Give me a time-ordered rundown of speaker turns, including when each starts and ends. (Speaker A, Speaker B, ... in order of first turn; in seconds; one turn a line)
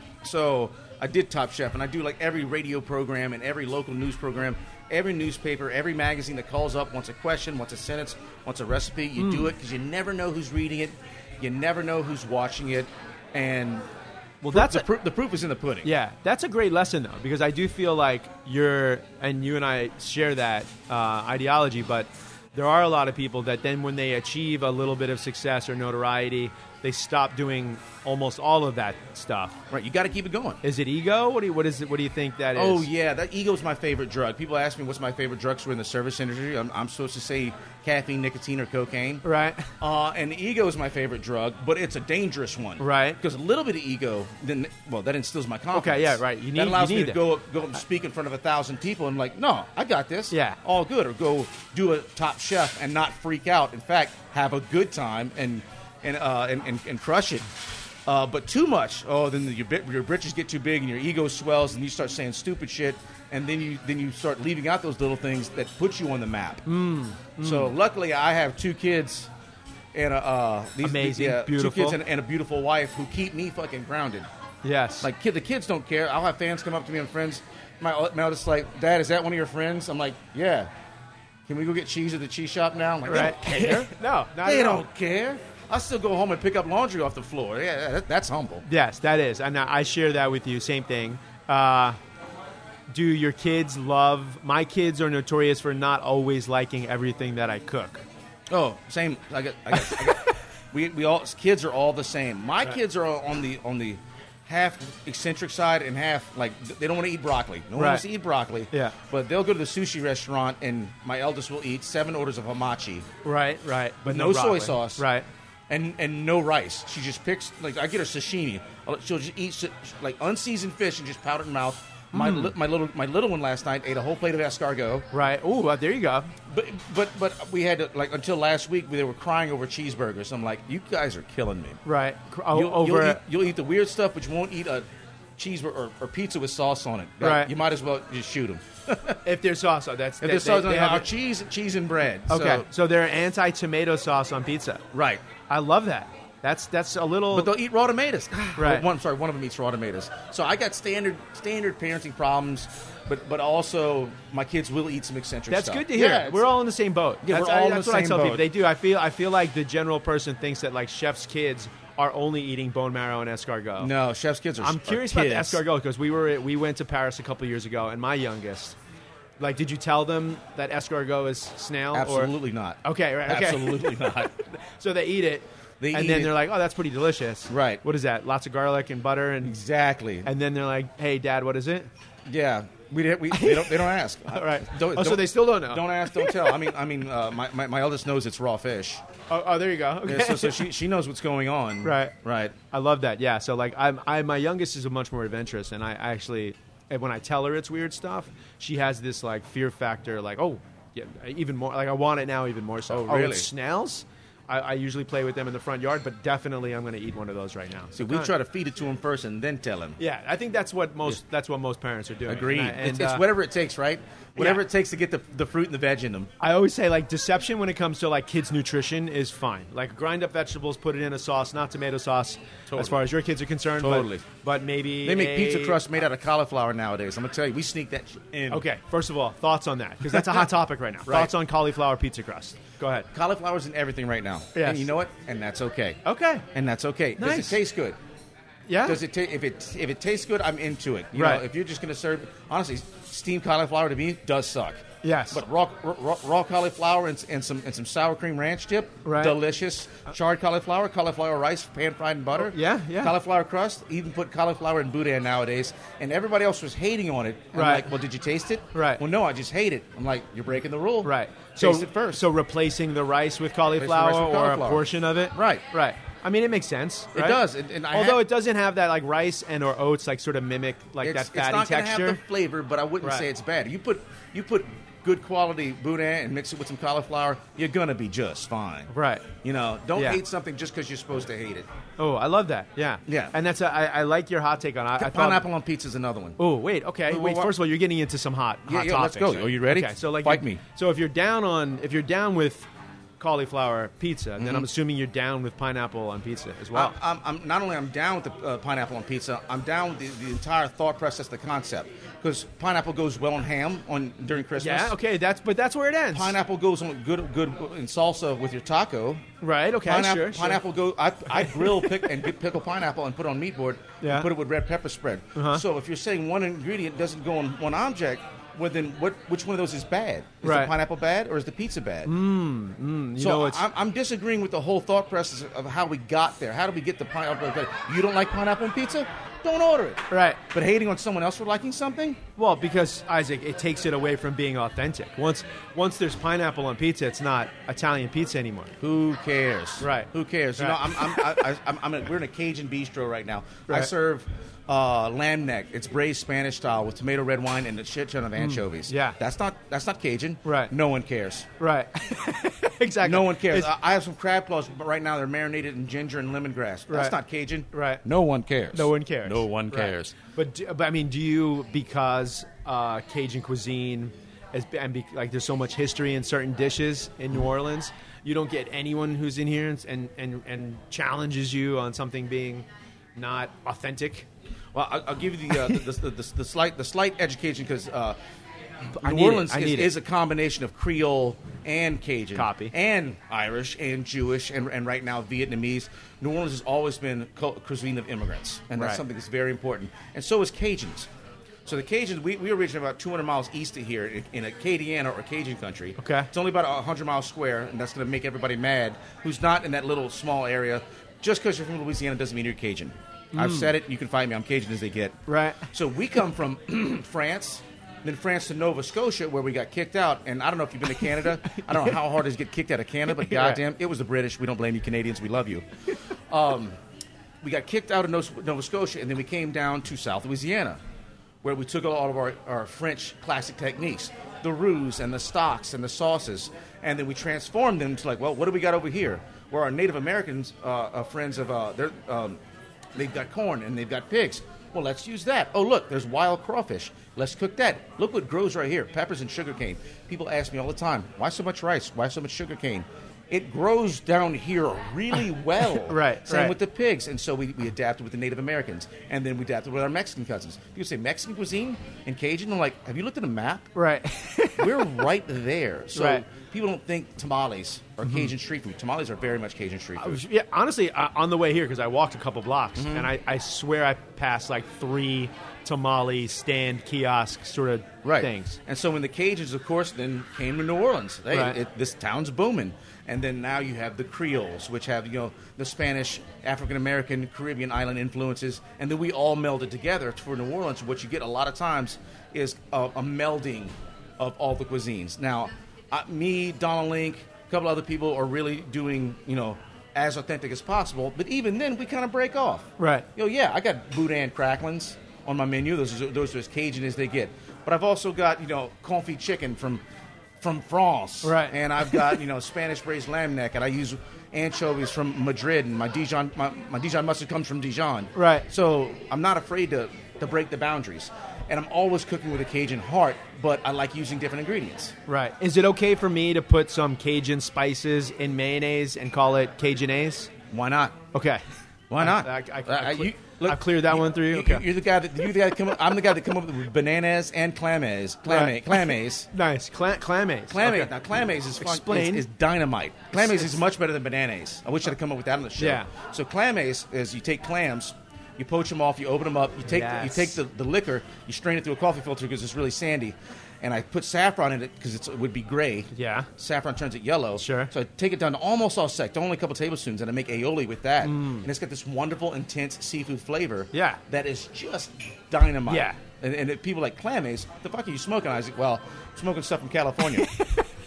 Speaker A: 0.2-13.8
Speaker B: 9.2-9.5
Speaker B: 14.4-14.9
Speaker A: 14.5-15.9
Speaker B: 15.8-29.6
Speaker A: 29.7-30.6
Speaker B: 30.6-32.9
Speaker A: 32.5-39.2
Speaker B: 39.2-39.7
Speaker A: 39.8-57.5
Speaker B: 42.8-43.2
Speaker B: 45.7-47.2
Speaker B: 50.3-50.6
Speaker A: 58.1-66.6
Speaker B: 66.7-67.7
Speaker A: 67.4-69.3
Speaker A: 69.9-74.3
Speaker B: 70.8-72.0
Speaker B: 74.6-75.1
Speaker A: 75.0-80.7
Speaker A: 81.5-88.6
Speaker B: 83.0-84.8
Speaker B: 88.6-92.0
Speaker B: 92.9-98.0
Speaker A: 98.5-113.0
Speaker B: 107.8-108.0
Speaker B: 113.2-115.3
Speaker A: 114.0-115.0
Speaker A: 115.7-125.0
Speaker B: 122.1-122.5
Speaker B: 125.1-126.3
Speaker A: 126.5-131.8
Speaker B: 131.8-133.2
Speaker A: 132.5-134.8
Speaker A: 135.4-139.2
Speaker B: 137.2-137.5
Speaker B: 139.2-141.1
Speaker A: 140.2-142.7
Speaker B: 142.3-144.8
Speaker A: 144.9-145.2
Speaker B: 145.5-147.5
Speaker A: 147.3-156.5
Speaker B: 148.5-148.9
Speaker B: 155.5-163.9
Speaker A: 157.2-158.4
Speaker A: 163.8-165.6
Speaker B: 164.6-168.8
Speaker B: 169.4-172.3
Speaker A: 171.9-174.3
Speaker B: 172.8-179.6
Speaker A: 175.8-176.3
Speaker A: 177.5-177.8
Speaker A: 179.4-180.3
Speaker B: 180.2-181.9
Speaker A: 182.3-189.0
Speaker B: 183.3-183.8
Speaker B: 184.3-186.5
Speaker B: 189.3-190.7
Speaker A: 190.1-192.6
Speaker B: 191.8-192.1
Speaker B: 192.7-208.3
Speaker A: 202.9-203.5
Speaker A: 207.9-210.0
Speaker B: 210.0-213.2
Speaker A: 212.2-216.3
Speaker B: 214.4-214.6
Speaker B: 216.4-225.8
Speaker A: 222.7-223.0
Speaker A: 223.8-224.2
Speaker A: 225.0-228.6
Speaker B: 228.5-233.1
Speaker A: 230.1-230.4
Speaker A: 231.1-231.3
Speaker A: 233.1-236.0
Speaker B: 234.5-234.9
Speaker B: 236.0-236.4
Speaker A: 236.5-238.0
Speaker B: 237.2-237.6
Speaker B: 238.7-239.0
Speaker A: 238.8-262.2
Speaker B: 241.1-241.4
Speaker B: 245.0-245.4
Speaker B: 249.0-249.4
Speaker B: 252.4-253.2
Speaker B: 257.5-257.9
Speaker B: 258.7-259.0
Speaker B: 261.0-272.2
Speaker A: 263.8-265.6
Speaker A: 267.1-268.2
Speaker A: 271.0-278.9
Speaker B: 273.0-273.3
Speaker B: 278.9-279.3
Speaker A: 279.4-281.7
Speaker B: 279.9-280.2
Speaker B: 282.0-285.4
Speaker A: 283.1-283.3
Speaker A: 285.0-286.4
Speaker B: 286.4-296.9
Speaker A: 287.1-287.5
Speaker A: 288.7-290.6
Speaker A: 294.4-294.7
Speaker A: 296.7-304.9
Speaker B: 304.6-306.4
Speaker A: 306.1-309.2
Speaker B: 309.4-310.6
Speaker A: 309.8-322.1
Speaker B: 311.3-312.1
Speaker B: 314.0-314.3
Speaker B: 315.4-315.6
Speaker B: 320.4-320.7
Speaker B: 322.1-323.6
Speaker A: 323.2-332.2
Speaker B: 330.1-330.4
Speaker B: 332.4-338.7
Speaker A: 338.8-351.5
Speaker B: 339.8-341.2
Speaker B: 348.4-349.2
Speaker B: 350.4-350.7
Speaker B: 351.6-353.7
Speaker A: 353.0-360.1
Speaker B: 356.9-357.2
Speaker B: 357.7-358.0
Speaker B: 358.7-374.3
Speaker A: 374.7-378.2
Speaker B: 378.9-379.9
Speaker A: 379.0-391.1
Speaker B: 382.3-382.7
Speaker B: 388.8-389.0
Speaker A: 391.6-415.7
Speaker B: 396.0-396.3
Speaker B: 403.3-403.7
Speaker B: 405.3-405.7
Speaker B: 413.2-413.6
Speaker A: 416.3-416.8
Speaker A: 417.4-420.8
Speaker A: 421.4-432.4
Speaker A: 432.9-453.7
Speaker B: 445.8-446.6
Speaker B: 453.7-455.1
Speaker A: 454.6-460.2
Speaker B: 455.9-456.2
Speaker B: 460.0-468.6
Speaker A: 462.8-463.1
Speaker A: 468.0-499.8
Speaker B: 471.3-471.6
Speaker B: 492.8-493.1
Speaker A: 500.4-515.0
Speaker B: 501.2-502.1
Speaker B: 508.1-508.4
Speaker B: 515.1-520.3
Speaker A: 520.5-521.0
Speaker B: 521.1-521.4
Speaker A: 521.9-529.3
Speaker B: 522.0-524.6
Speaker B: 528.3-528.8
Speaker B: 529.3-530.9
Speaker A: 530.5-560.3
Speaker B: 531.6-532.2
Speaker B: 533.1-533.6
Speaker B: 535.6-535.9
Speaker B: 539.6-540.4
Speaker B: 545.9-546.3
Speaker B: 547.4-547.7
Speaker B: 551.0-551.5
Speaker B: 553.7-554.0
Speaker B: 555.7-556.0
Speaker B: 560.2-560.6